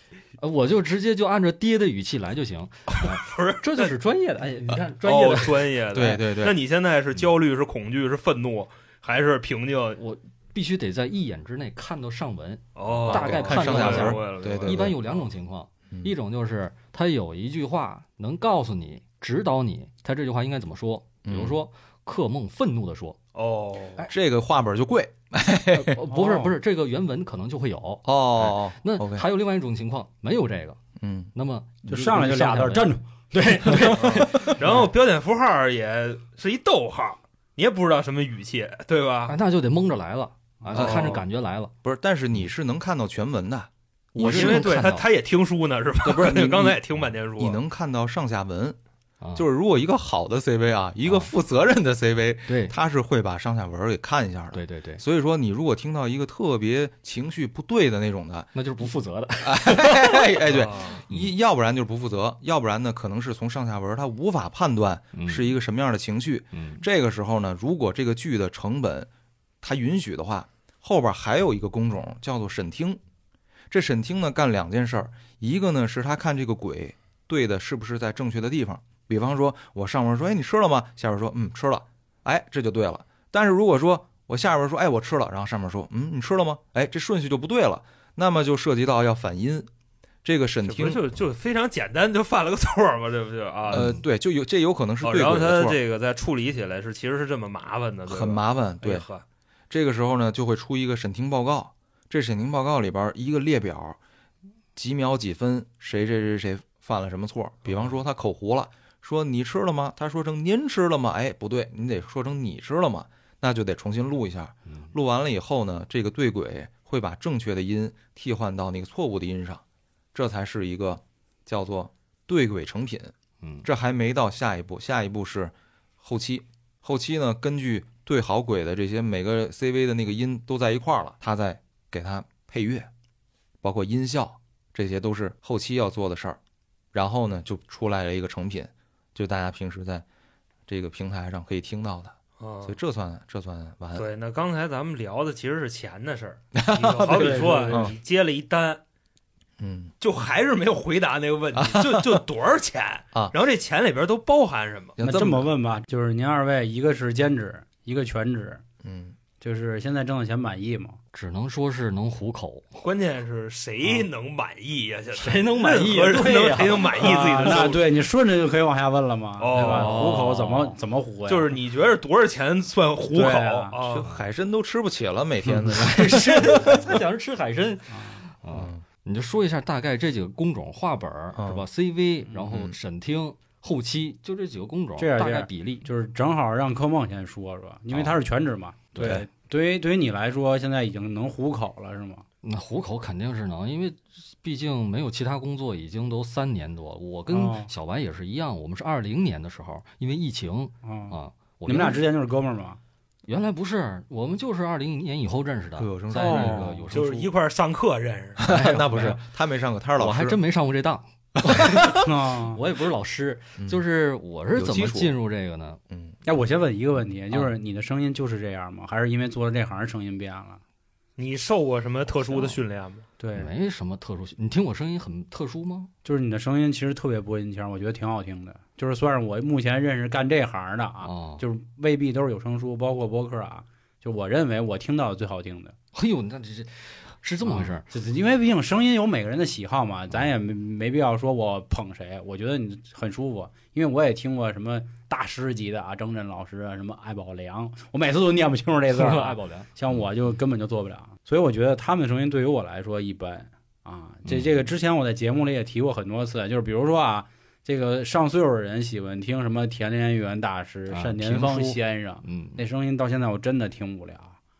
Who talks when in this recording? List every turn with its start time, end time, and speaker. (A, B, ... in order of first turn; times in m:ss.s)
0:00.4-0:05.7 A
0:02.9-0:04.0 B
0:05.0-0:10.0 B
0:05.9-0:06.6 C
0:10.0-0:23.2 A
0:12.8-0:15.2 B
0:13.0-0:15.0 C
0:21.2-0:21.6 C
0:23.4-0:24.1 B
0:24.1-0:26.0 C
0:25.7-0:30.8 A
0:26.1-0:26.6 D
0:28.0-0:29.3 C
0:31.0-0:31.3 C
0:31.4-0:34.8 A
0:31.9-0:34.0 D
0:33.9-0:39.4 B
0:39.3-0:41.7 A
0:40.7-0:41.2 B
0:40.8-0:41.2 C
0:41.8-0:44.7 C
0:44.1-0:45.1 A
0:44.2-0:47.6 B
0:46.0-0:46.8 C
0:47.4-0:48.8 C
0:49.2-0:49.4 A
0:49.4-0:58.9 C
0:51.0-0:51.3 A
0:52.5-0:52.7 A
0:54.5-0:55.0 A
0:58.5-1:00.4 A
0:59.4-1:09.1 C
1:00.5-1:01.0 B
1:05.1-1:05.5 A
1:06.5-1:06.8 A
1:09.6-1:13.0 C
1:13.7-1:29.7 C
1:30.2-1:31.1 C
1:30.6-1:34.0 B
1:33.7-1:35.8 C
1:33.7-1:34.0 A
1:35.0-1:39.2 B
1:38.1-1:39.1 C
1:39.7-1:44.0 C
1:44.8-1:59.6 C
1:54.7-1:54.9 A
2:00.1-2:03.1 C
2:03.4-2:03.7 A
2:03.6-2:12.9 C
2:13.6-2:16.4 C
2:16.9-2:20.0 C
2:20.7-2:24.1 C
2:22.4-2:22.8 B
2:23.9-2:28.8 B
2:26.5-2:27.9 C
2:27.0-2:27.9 D
2:29.6-2:29.9 C
2:30.0-2:34.9 B
2:31.5-2:32.2 C
2:35.0-2:35.5 C
2:35.0-2:38.6 D
2:38.8-2:39.2 C
2:39.4-2:41.0 D
2:41.1-2:42.8 A
2:42.8-2:47.9 B
2:45.1-2:47.2 A
2:46.9-2:51.5 D
2:49.4-2:50.4 B
2:49.6-2:50.8 A
2:51.3-2:54.1 B
2:53.1-2:53.8 D
2:53.8-2:56.9 C
2:55.6-3:05.9 A
2:57.9-2:58.2 D
2:58.5-2:58.8 C
3:01.3-3:01.7 C
3:02.4-3:02.8 C
3:05.0-3:12.2 D
3:07.9-3:08.2 A
3:09.0-3:09.2 A
3:12.4-3:22.0 A
3:17.3-3:17.7 D
3:20.8-3:22.8 D
3:23.2-3:27.3 A
3:25.8-3:26.8 C
3:26.1-3:26.9 D
3:26.9-3:28.4 B
3:28.4-3:30.4 C
3:28.5-3:29.2 A
3:30.0-3:35.8 A
3:31.4-3:32.0 C
3:32.0-3:32.6 D
3:33.6-3:33.8 C
3:34.5-3:35.2 C
3:35.9-3:36.2 C
3:36.2-3:40.6 D
3:41.2-3:43.1 B
3:43.2-3:43.5 D
3:43.4-3:45.9 A
3:46.0-3:55.7 D
3:51.0-3:51.4 A
3:55.9-3:57.8 A
3:57.4-4:24.4 D
4:08.9-4:09.7 A
4:14.3-4:14.5 A
4:20.9-4:22.6 A